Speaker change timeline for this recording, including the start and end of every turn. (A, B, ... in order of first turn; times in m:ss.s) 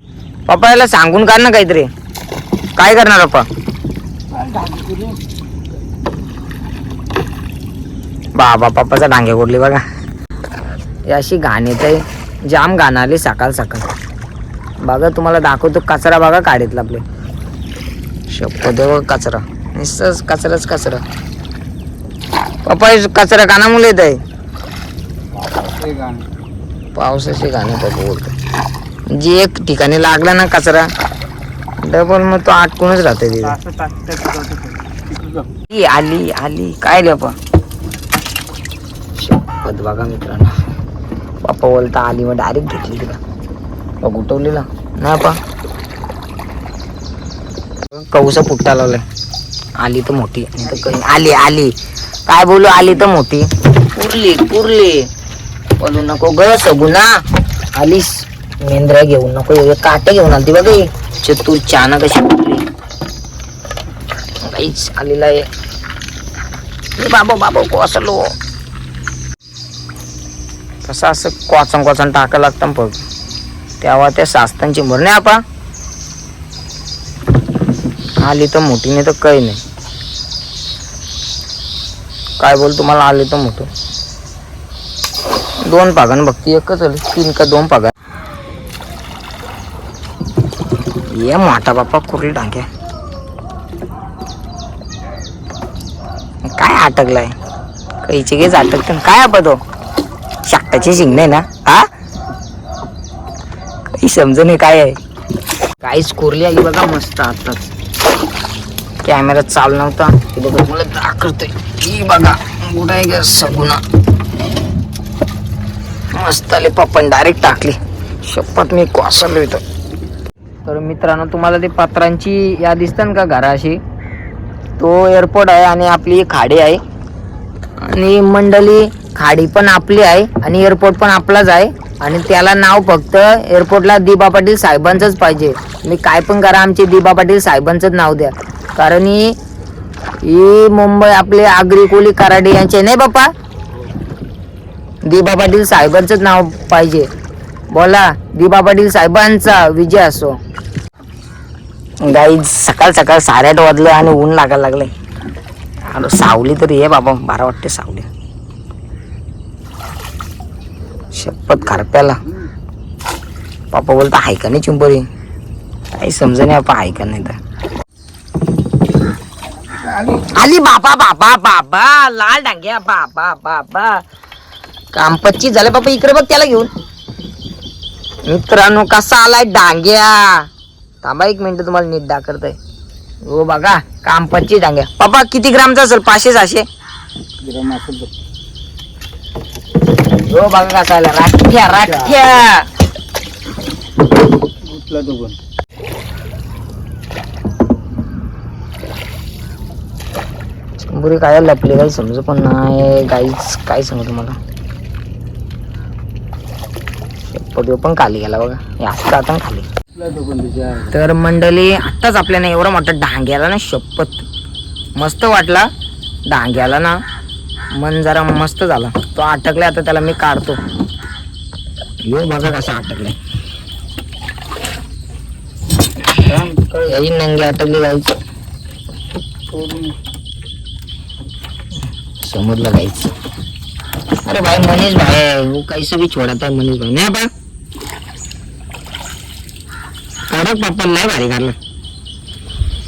0:00.5-0:01.9 A
0:02.8-0:03.5 A
0:04.3-0:05.2 B
0:08.4-0:09.8 A
0:11.1-0:13.9 A
0:14.8-0:17.0 A
0:18.3-0:21.0 A
0:22.6-0:24.2 A
0:25.4-0:26.3 B
0:26.9-0:28.3 A
0:29.1-0:30.9 A
0:31.8-0:33.6 A
0:33.4-0:35.5 B
0:35.7-0:37.4 A
0:39.2-0:40.5 A
0:41.4-0:43.2 A
0:44.0-0:45.4 A
0:47.9-0:49.0 A
0:49.8-0:51.7 A
0:52.3-0:55.1 A
0:55.8-0:57.1 A
0:57.8-1:02.6 A
1:04.4-1:05.5 A
1:07.0-1:08.3 A
1:10.8-1:13.0 A
1:13.8-1:15.4 A
1:18.2-1:19.6 A
1:22.4-1:23.7 A
1:25.6-1:27.9 A
1:31.1-1:32.7 A
1:36.4-1:37.4 A
1:38.0-1:39.6 A
1:40.4-1:41.9 A
1:44.0-1:45.0 A
1:45.8-1:47.7 A
1:49.0-1:53.8 A
1:56.1-1:59.6 A
2:00.6-2:03.8 A
2:04.8-2:06.8 A
2:07.8-2:19.4 A
2:20.2-2:23.3 A
2:25.0-2:27.1 A
2:27.7-2:30.4 A
2:32.0-2:34.9 A
2:35.8-2:38.1 A
2:41.1-2:42.2 A
2:43.7-2:45.0 A
2:45.9-2:47.4 A
2:50.0-2:54.0 A
2:54.9-2:56.7 A
2:58.2-3:00.5 A
3:01.0-3:02.6 A
3:03.2-3:06.6 A
3:07.4-3:08.1 B
3:10.2-3:12.7 A
3:14.6-3:15.4 B
3:20.8-3:24.4 A
3:27.3-3:29.7 A
3:29.9-3:30.9 B
3:30.9-3:34.2 A
3:35.0-3:35.7 A
3:36.3-3:37.0 A
3:37.8-3:40.6 A
3:42.1-3:43.2 A
3:46.1-3:47.0 B
3:46.8-3:48.1 A
3:49.5-3:50.0 B
3:52.2-3:53.1 A
3:54.2-3:57.3 A
4:00.3-4:01.6 A